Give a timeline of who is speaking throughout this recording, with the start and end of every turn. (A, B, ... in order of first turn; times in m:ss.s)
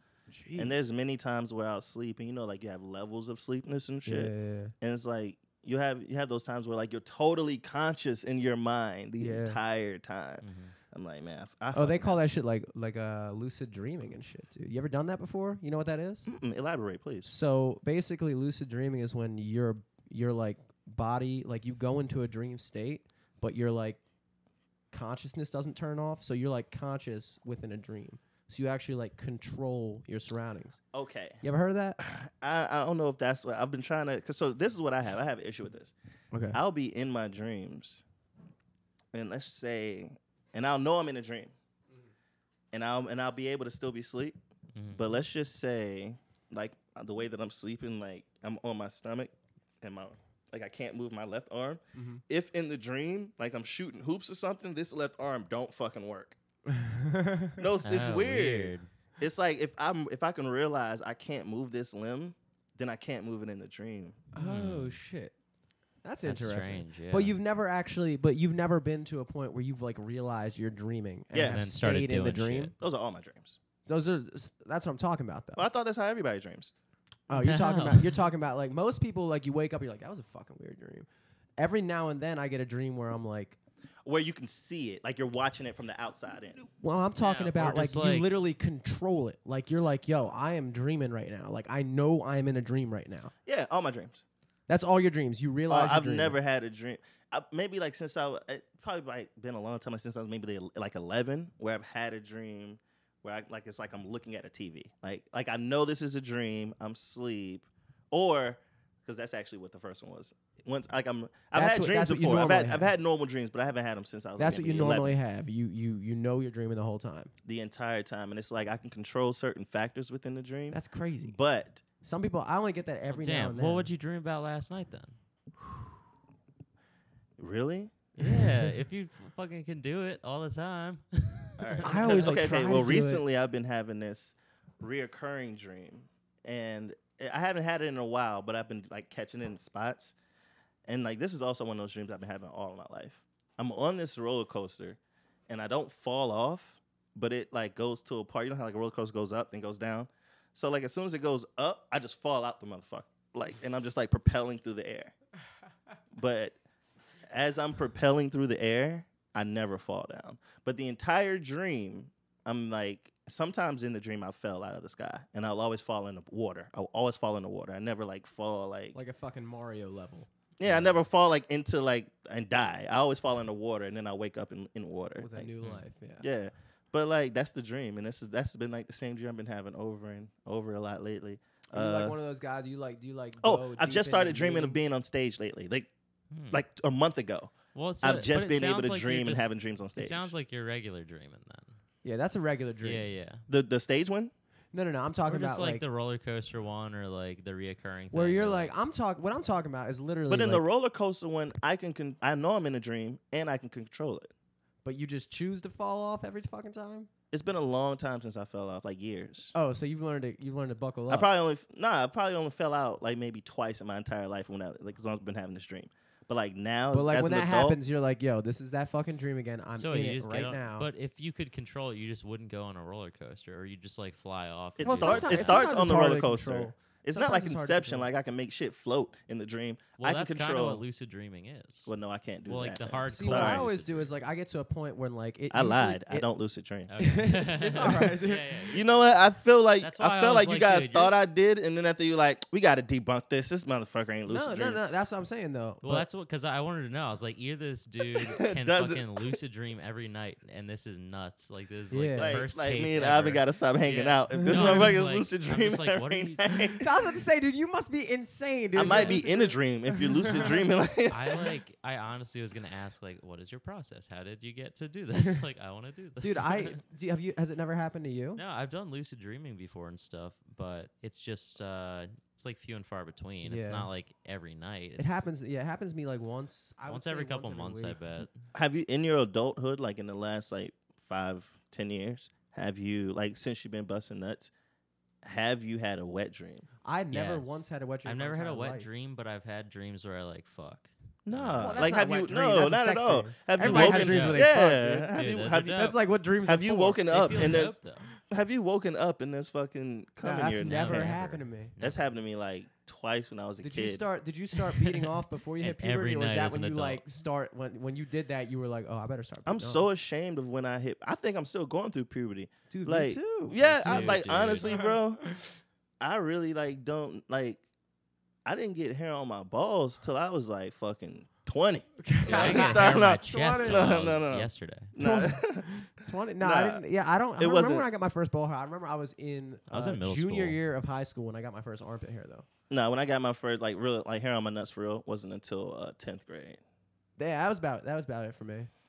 0:00.3-0:00.8 A
0:00.6-0:12.2 B
0:04.0-0:04.7 A
0:09.2-0:09.6 A
0:10.4-0:10.7 C
0:11.7-0:16.3 A
0:16.2-0:17.3 B
0:17.2-0:24.0 A
0:24.9-0:30.8 A
0:30.9-0:31.4 B
0:31.4-0:32.0 A
0:32.0-0:35.9 B
0:36.3-0:36.6 A
0:36.5-0:38.0 B
0:39.1-0:41.5 B
0:42.7-0:44.4 B
0:44.7-0:45.0 C
0:44.9-0:56.4 B
0:51.9-0:52.2 A
0:56.7-0:57.6 A
0:57.6-1:04.2 B
0:57.8-0:58.9 C
1:04.3-1:05.3 A
1:04.4-1:05.0 C
1:06.0-1:12.7 A
1:06.2-1:07.3 C
1:11.3-1:11.6 B
1:11.4-1:12.7 C
1:12.8-1:13.6 B
1:13.8-1:15.6 A
1:15.6-1:16.7 B
1:17.3-1:21.1 A
1:17.3-1:18.1 C
1:21.6-1:23.6 A
1:24.0-1:26.6 B
1:26.6-1:33.3 A
1:27.2-1:28.3 C
1:33.4-1:34.2 B
1:34.7-1:36.4 A
1:35.7-1:55.2 B
1:51.5-1:52.9 A
1:54.4-1:57.3 A
1:57.4-2:01.8 B
2:00.7-2:01.4 A
2:02.0-2:03.9 A
2:03.1-2:05.2 C
2:05.6-2:05.9 B
2:07.4-2:08.0 B
2:08.2-2:12.4 C
2:11.6-2:20.1 B
2:11.8-2:13.2 A
2:20.9-2:35.1 B
2:36.1-2:36.6 B
2:37.3-2:49.0 B
2:48.9-2:50.3 A
2:50.6-2:55.5 B
2:50.6-2:51.0 C
2:55.2-2:56.2 A
2:56.2-3:02.2 B
3:01.7-3:04.8 A
3:03.4-3:05.9 B
3:06.3-3:06.6 C
3:06.5-3:10.3 B
3:07.7-3:11.7 C
3:12.0-3:13.1 A
3:12.8-3:13.4 C
3:13.5-3:14.3 B
3:14.7-3:15.8 A
3:15.3-3:18.7 C
3:18.1-3:20.6 A
3:20.3-3:24.3 B
3:24.8-3:27.1 A
3:27.3-3:29.5 B
3:29.5-3:31.3 A
3:31.1-3:37.8 B
3:36.9-3:40.9 A
3:39.7-3:45.7 C
3:44.8-3:50.8 B
3:44.8-3:48.1 A
3:50.0-3:51.9 C
3:51.8-3:53.6 B
3:52.5-3:54.1 C
3:53.0-3:56.3 A
3:55.5-3:56.9 B
3:56.9-3:58.9 C
3:57.0-3:58.7 A
3:58.7-4:04.8 B
3:59.8-4:01.1 C
4:04.3-4:06.1 A
4:05.8-4:16.7 C
4:08.1-4:09.3 B
4:11.9-4:12.4 A
4:12.2-4:16.9 B
4:14.5-4:14.9 A
4:16.8-4:20.6 A
4:18.7-4:21.4 B
4:21.1-4:26.8 C
4:26.2-4:28.4 A
4:28.4-4:35.2 C
4:33.4-4:33.9 A
4:35.0-4:38.0 A
4:36.9-4:38.3 C
4:38.5-4:44.5 B
4:45.2-4:46.6 B
4:46.8-4:48.9 A
4:47.1-4:51.9 C
4:51.2-4:55.8 B
4:51.6-4:55.1 A
4:53.6-4:54.5 C
4:55.1-4:56.0 C
4:55.7-4:57.7 A
4:56.4-4:57.8 B
4:57.1-4:58.0 C
4:58.3-5:01.1 B
5:00.2-5:01.7 A
5:00.6-5:02.0 C
5:01.8-5:04.0 B
5:03.6-5:09.8 A
5:04.8-5:07.0 C
5:09.4-5:15.2 B
5:12.7-5:15.0 A
5:13.6-5:14.9 C
5:16.0-5:17.6 B
5:18.4-5:25.7 B
5:22.0-5:23.9 A
5:22.2-5:24.9 C
5:25.0-5:32.4 A
5:26.4-5:26.8 B
5:27.4-5:27.9 B
5:29.7-5:30.6 C
5:32.7-5:36.6 B
5:37.2-5:38.7 A